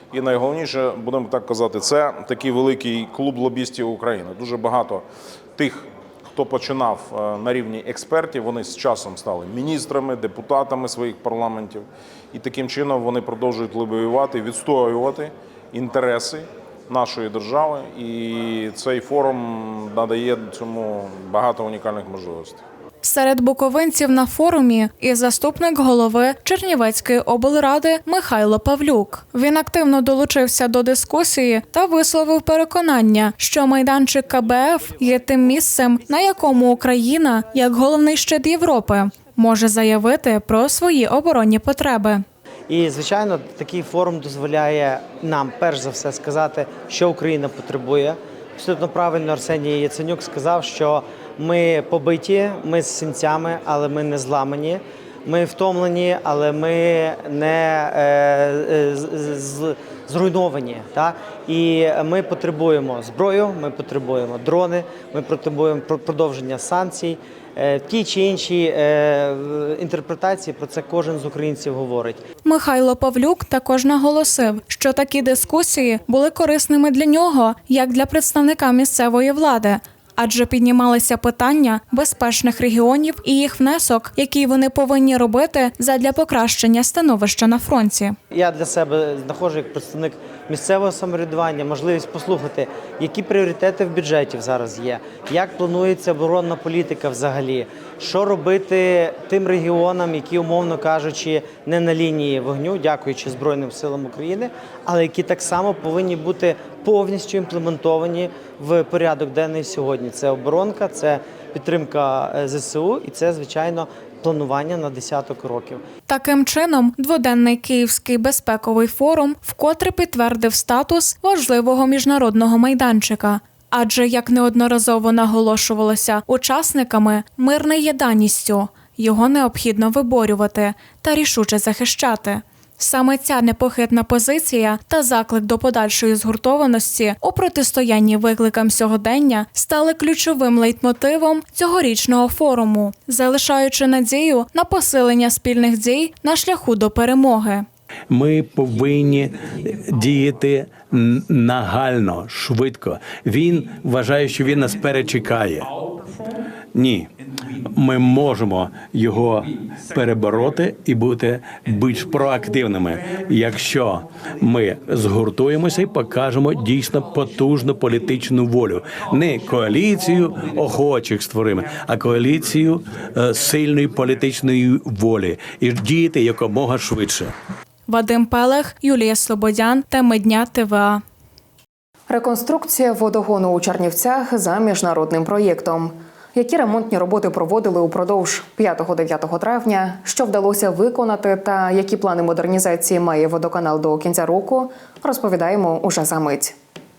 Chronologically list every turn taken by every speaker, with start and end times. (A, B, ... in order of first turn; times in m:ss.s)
0:00.1-0:05.0 A
0:05.6-0:22.6 A
0:23.0-0:42.2 B
0:42.7-1:12.2 C
1:12.4-1:28.2 B
1:28.3-1:55.8 C
1:56.1-2:27.6 B
2:28.1-2:35.7 D
2:36.7-2:37.1 D
2:37.8-2:57.3 D
2:57.9-3:01.0 B
3:02.1-3:16.6 E